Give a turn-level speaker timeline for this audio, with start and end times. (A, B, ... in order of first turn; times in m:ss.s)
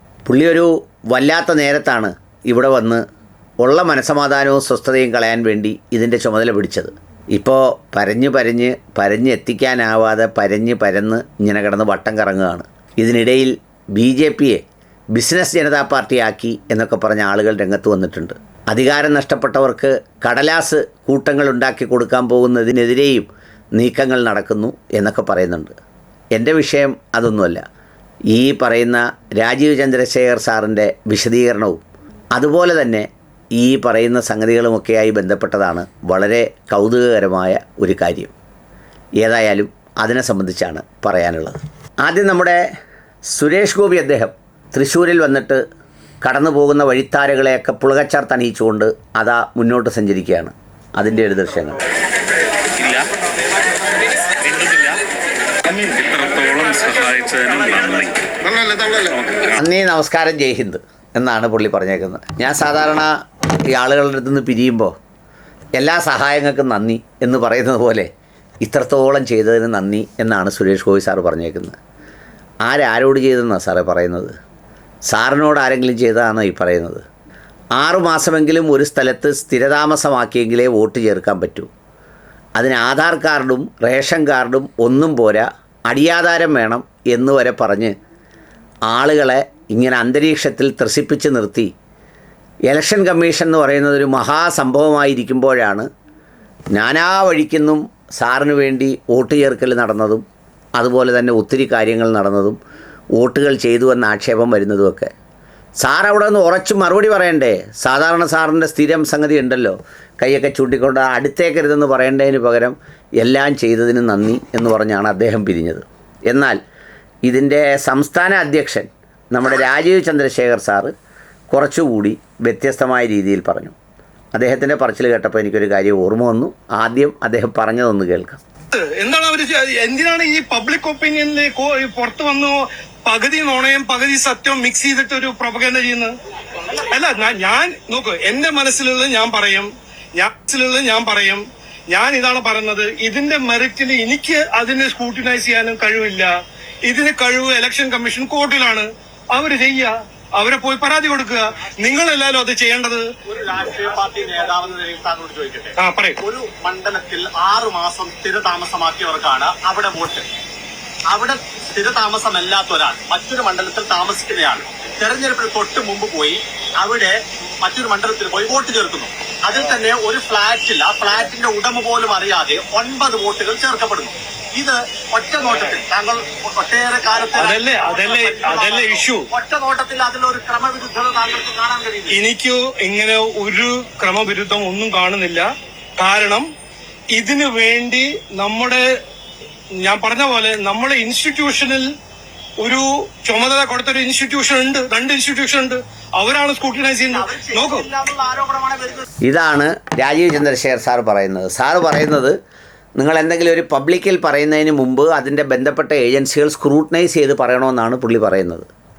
0:00.3-0:03.0 A
0:03.6-0:14.6 A
0:15.1-0:25.7 A
0:26.3-0:27.6 A
0:28.3-0:31.8 A
0:32.3-0:38.3 A
0:39.2-0:42.6 A
0:43.3-0:45.6 A
0:46.2-0:51.8 A
0:52.8-0:53.1 B
0:54.4-0:55.0 B
0:55.6-0:59.4 B
0:59.6-1:04.9 A
1:05.8-1:08.1 A
1:08.6-1:11.8 A
1:12.6-1:14.3 A
1:15.1-1:17.0 A
1:17.8-1:21.7 A
1:22.6-1:27.9 A
1:28.9-1:31.7 A
1:32.7-1:35.9 A
1:36.7-1:40.2 A
1:40.8-1:42.6 A
1:43.2-1:45.1 A
1:45.8-1:56.6 A
1:57.3-2:00.9 A
2:01.5-2:03.8 A
2:04.4-2:08.4 A
2:08.7-2:16.1 C
2:16.8-2:26.3 C
2:26.9-2:33.0 C
2:33.2-2:40.2 D
2:35.8-2:36.2 C
2:41.1-3:02.2 D
2:57.3-2:59.3 C
3:02.1-3:05.5 C
3:06.0-3:06.5 C
3:07.1-3:08.9 C
3:09.8-3:11.9 C
3:12.6-3:17.9 C
3:17.1-3:19.1 D
3:19.3-3:22.4 A
3:23.0-3:28.7 A